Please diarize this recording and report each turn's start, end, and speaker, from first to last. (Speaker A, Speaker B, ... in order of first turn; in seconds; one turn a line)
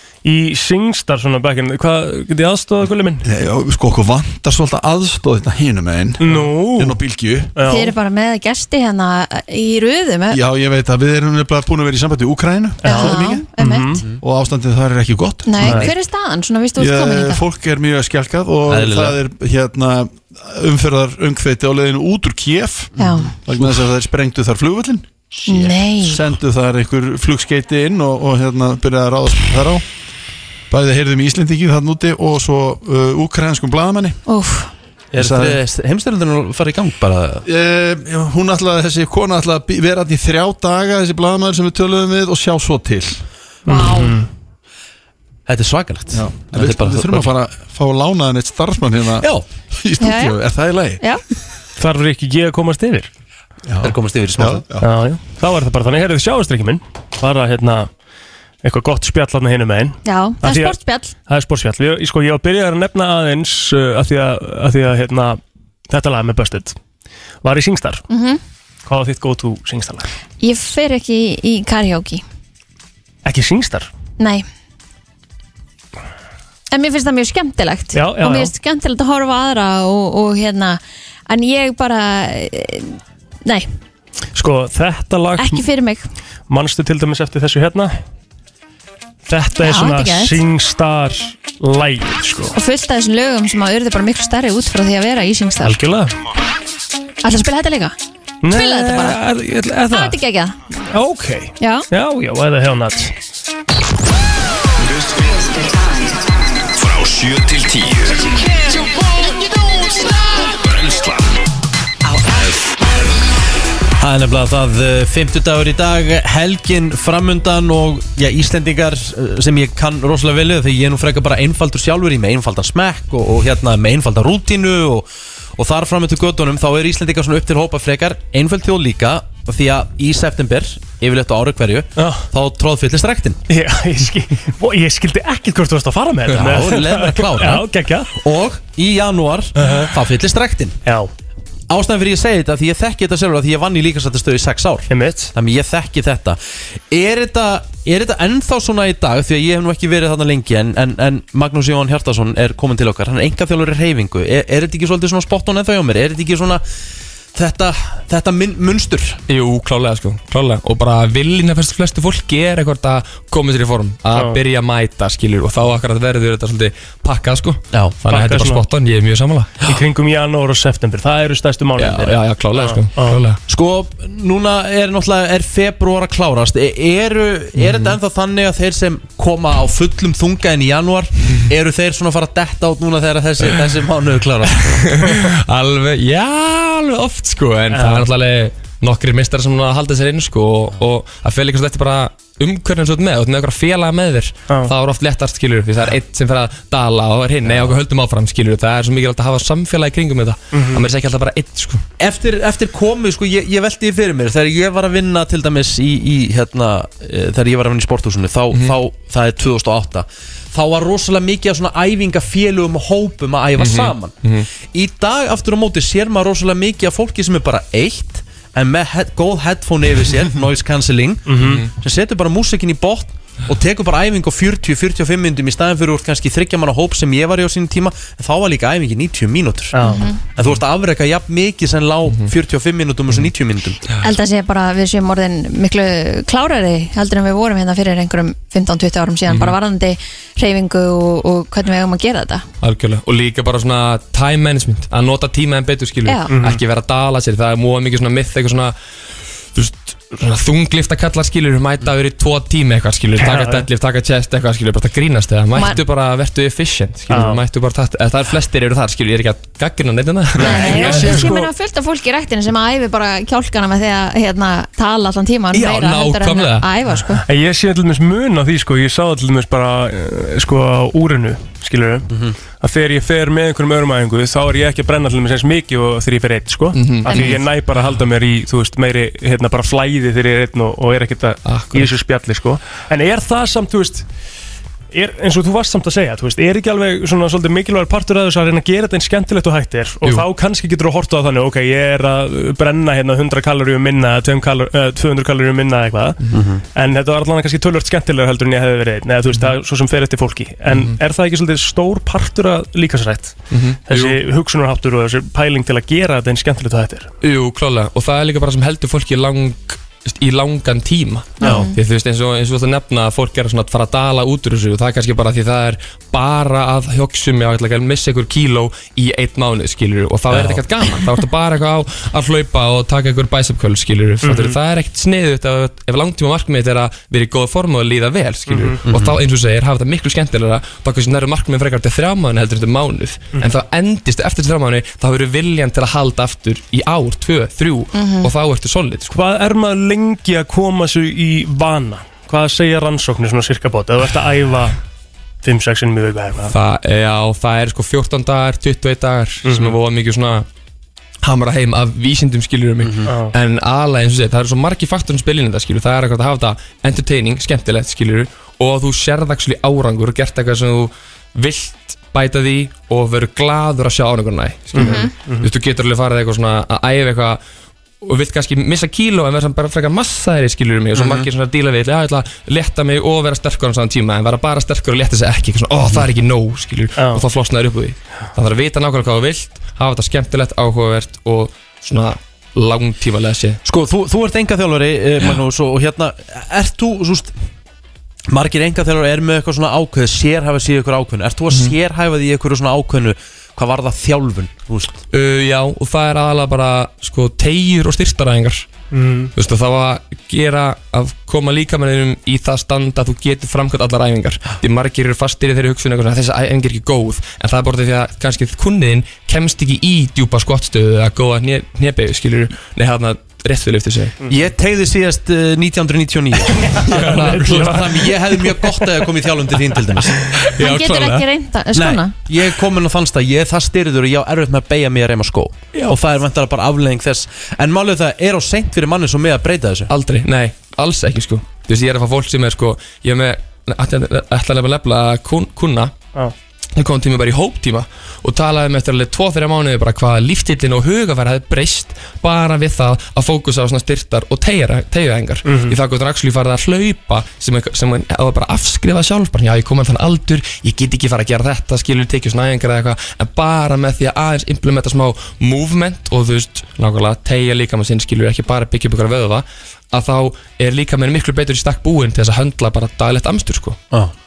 Speaker A: 0.2-3.2
Speaker B: 3.2-7.5
Speaker A: 6.2-7.0
Speaker A: 7.5-7.9
Speaker C: 7.7-10.4
Speaker B: 10.3-13.5
Speaker A: 12.8-14.0
Speaker C: 12.8-14.0
Speaker B: 14.2-15.9
Speaker C: 15.4-17.4
Speaker A: 15.6-15.9
Speaker B: 16.8-25.1
Speaker D: 18.7-19.2
Speaker C: 23.0-23.3
Speaker D: 23.0-23.8
Speaker D: 25.4-25.7
Speaker C: 25.5-26.2
Speaker B: 26.0-29.8
Speaker B: 30.7-34.2
Speaker C: 34.3-34.7
Speaker D: 35.1-37.5
Speaker B: 35.1-35.6
Speaker B: 37.5-43.2
Speaker C: 43.7-44.2
Speaker A: 43.7-44.3
Speaker D: 45.5-47.3
Speaker B: 46.1-51.0
Speaker D: 49.2-49.5
Speaker C: 50.0-50.4
Speaker A: 51.8-53.1
Speaker B: 53.7-54.9
Speaker D: 53.8-54.6
Speaker A: 54.8-57.9
Speaker A: 58.6-66.8
Speaker C: 60.0-61.1
Speaker A: 67.4-68.0
Speaker C: 68.1-68.4
Speaker A: 68.9-70.1
Speaker C: 70.4-72.2
Speaker A: 73.2-73.9
Speaker C: 74.2-74.5
Speaker C: 76.7-83.7
Speaker A: 77.9-78.5
Speaker A: 84.3-85.7
Speaker C: 85.4-86.0
Speaker A: 86.5-87.9
Speaker A: 89.3-92.5
Speaker C: 89.6-90.4
Speaker C: 92.5-95.8
Speaker A: 95.6-96.1
Speaker C: 97.2-98.0
Speaker A: 98.4-100.2
Speaker C: 98.5-99.2
Speaker C: 99.9-100.5
Speaker A: 100.9-103.1
Speaker C: 101.6-101.9
Speaker E: 104.8-105.5
Speaker E: 106.8-108.6
Speaker E: 110.4-111.4
Speaker E: 112.1-112.6
Speaker D: 114.0-133.4
Speaker A: 132.0-132.3
Speaker A: 133.5-138.1
Speaker D: 136.3-140.8
Speaker A: 139.6-139.9
Speaker D: 141.7-156.6
Speaker A: 144.9-145.3
Speaker D: 157.3-159.2
Speaker F: 159.3-169.5
Speaker A: 164.1-164.4
Speaker A: 168.1-168.7
Speaker A: 169.6-173.2
Speaker F: 171.8-173.4
Speaker D: 173.5-184.8
Speaker F: 177.6-178.0
Speaker F: 184.6-201.8
Speaker A: 187.7-188.1
Speaker A: 194.5-194.7
Speaker D: 197.4-197.8
Speaker A: 200.5-200.8
Speaker D: 202.0-229.8
Speaker F: 213.6-214.5
Speaker A: 221.3-221.6
Speaker A: 229.7-230.0
Speaker C: 229.8-230.2
Speaker D: 230.4-233.8
Speaker C: 234.0-242.4
Speaker F: 239.3-239.6
Speaker F: 242.6-248.8
Speaker C: 246.1-246.3
Speaker A: 246.3-246.6
Speaker F: 249.5-261.2
Speaker A: 253.2-253.7
Speaker C: 255.6-255.8
Speaker A: 257.1-257.4
Speaker C: 260.4-267.2
Speaker A: 260.4-261.4
Speaker F: 265.5-266.7
Speaker A: 267.2-272.1
Speaker D: 272.1-272.4
Speaker A: 272.6-284.1
Speaker F: 276.7-277.4
Speaker C: 277.1-277.4
Speaker F: 281.4-281.9
Speaker A: 284.9-296.2
Speaker D: 296.3-296.6
Speaker A: 296.7-307.1
Speaker F: 300.7-301.0
Speaker F: 303.5-304.2
Speaker F: 307.2-339.1
Speaker C: 311.4-311.7
Speaker D: 311.4-311.7
Speaker D: 320.3-320.6
Speaker A: 324.2-324.6
Speaker A: 328.5-328.8
Speaker D: 328.9-329.2
Speaker C: 337.9-338.3
Speaker A: 339.1-344.8
Speaker A: 345.4-346.6
Speaker F: 346.5-350.5
Speaker A: 349.4-349.8
Speaker F: 351.2-367.4
Speaker D: 352.8-353.1
Speaker A: 353.1-353.3
Speaker C: 364.8-365.1
Speaker A: 364.8-365.5
Speaker F: 368.0-383.6
Speaker D: 370.9-371.3
Speaker A: 377.0-377.2
Speaker D: 383.6-387.3
Speaker D: 388.3-395.0
Speaker F: 395.1-398.7
Speaker A: 398.9-399.3
Speaker F: 399.3-414.1
Speaker D: 414.3-420.2
Speaker A: 416.7-418.1
Speaker F: 416.9-417.8
Speaker F: 420.4-421.3
Speaker C: 420.6-422.1
Speaker D: 421.7-429.9
Speaker F: 429.9-436.0
Speaker F: 436.7-463.8
Speaker A: 445.4-445.8